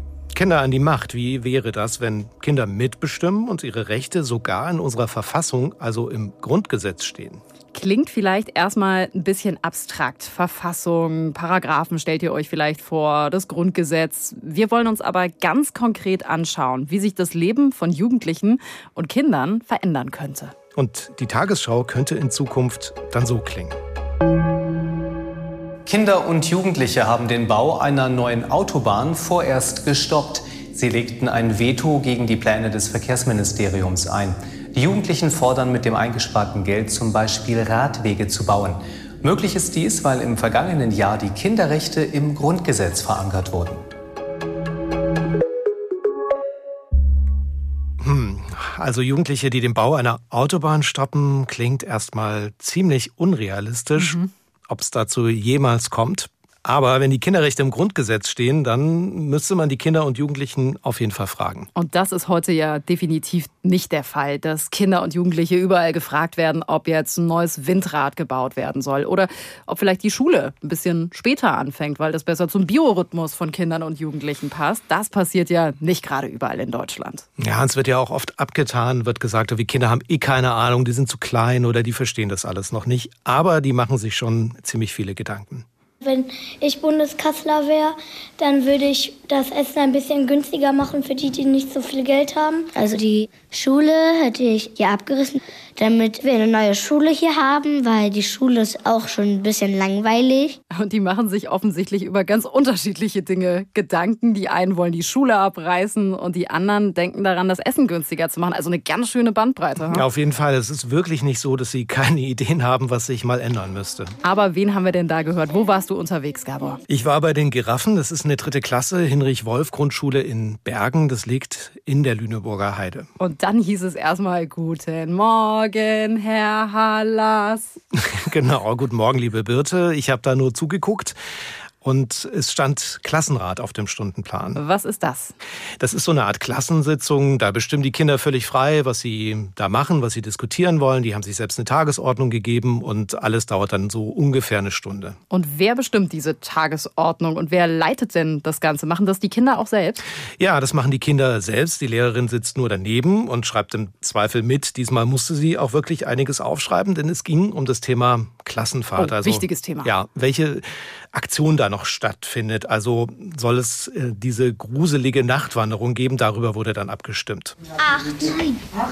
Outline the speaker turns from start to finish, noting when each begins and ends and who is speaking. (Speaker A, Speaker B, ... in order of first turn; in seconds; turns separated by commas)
Speaker A: 0.3-7.4, Speaker B: 7.7-20.5, Speaker A: 20.8-23.8, Speaker C: 25.9-43.8, Speaker A: 48.0-61.7, Speaker B: 54.0-54.3, Speaker B: 61.7-77.2, Speaker A: 77.4-85.6, Speaker D: 86.0-92.7, Speaker E: 92.7-100.6, Speaker B: 100.7-110.1, Speaker A: 109.9-114.1, Speaker B: 114.2-116.8, Speaker A: 116.9-123.1, Speaker B: 123.2-127.8, Speaker A: 128.2-131.2, Speaker A: 131.8-134.6, Speaker B: 134.5-135.3, Speaker A: 135.8-145.2, Speaker B: 145.3-150.0, Speaker A: 150.4-167.6, Speaker B: 158.9-159.9